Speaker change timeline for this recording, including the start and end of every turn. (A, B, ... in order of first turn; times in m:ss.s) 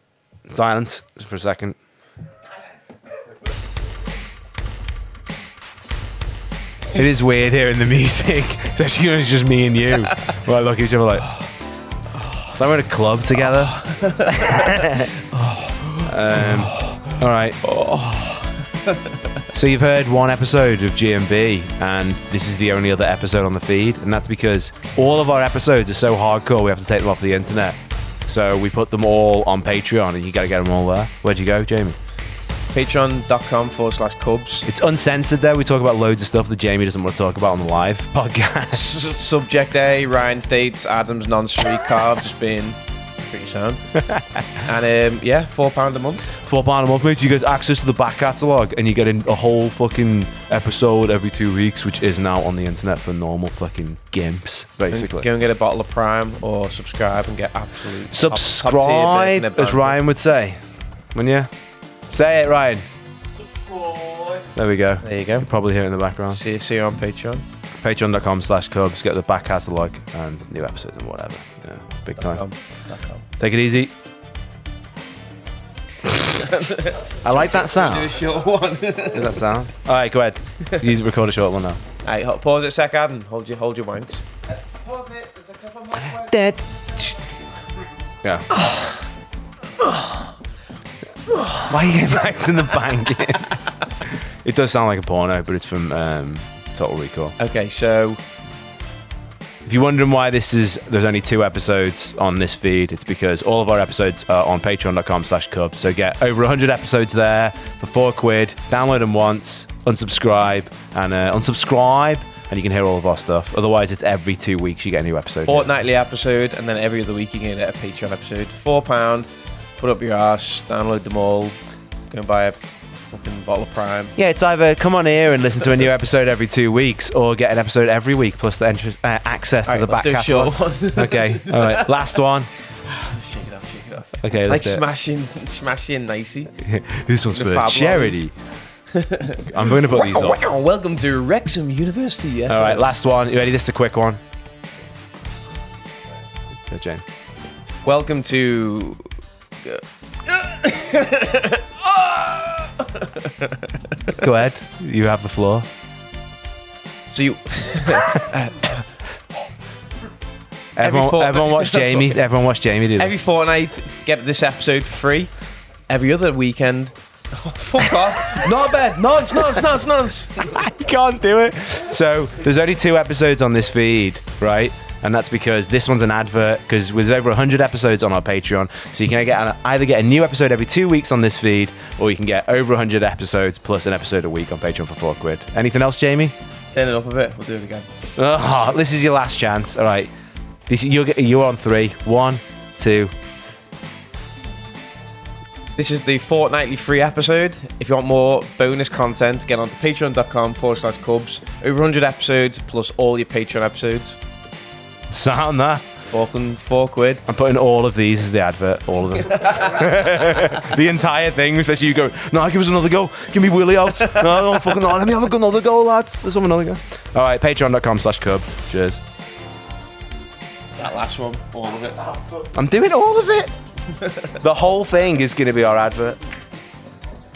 0:00.5-0:01.8 A
0:06.9-0:11.4 A
0:12.4-0:15.2 A
0:13.6-0:16.9 B
0:16.0-0:17.6 A
0:17.6-0:19.0 B
0:19.5-0:32.0 A
0:32.7-0:34.7 B
0:34.7-0:38.9 A
0:38.7-0:43.9 B
0:44.6-0:46.3 B
0:46.4-0:55.3 A
0:54.9-1:00.0 B
0:58.1-1:00.6 A
1:01.1-1:01.5 A
1:02.1-1:02.9 A
1:03.8-1:04.3 B
1:04.5-1:06.4 A
1:05.0-1:05.5 B
1:06.3-1:07.4 B
1:07.8-1:12.4 A
1:12.2-1:13.3 B
1:13.4-1:13.9 A
1:16.1-1:19.5 B
1:17.2-1:18.2 A
1:19.1-1:21.8 A
1:22.0-1:27.1 B
1:26.0-1:26.6 A
1:28.2-1:28.5 A
1:31.6-1:37.4 A
1:37.4-1:38.2 B
1:39.7-1:55.7 A
1:55.5-2:01.6 B
2:02.1-2:04.1 B
2:04.2-2:12.5 A
2:09.7-2:12.2 B
2:12.8-2:16.6 B
2:14.2-2:14.8 A
2:16.6-2:18.3 A
2:17.3-2:18.3 B
2:18.9-2:22.9 B
2:19.4-2:20.4 A
2:22.5-2:24.2 A
2:26.7-2:27.0 A
2:27.8-2:29.1 B
2:29.6-2:34.2 B
2:34.1-2:35.7 A
2:37.1-2:38.8 B
2:40.8-2:43.2 A
2:40.8-2:42.2 B
2:43.0-2:45.3 B
2:45.9-2:50.6 B
2:48.4-2:49.6 A
2:50.4-3:06.3 A
3:06.7-3:07.9 B
3:08.2-3:10.1 A
3:10.7-3:13.1 A
3:15.8-3:24.2 B
3:25.1-3:25.8 A
3:26.1-3:27.2 B
3:27.3-3:39.0 A
3:40.8-3:42.2 B
3:42.3-3:43.5 A
3:44.0-3:44.3 B
3:44.4-3:46.2 A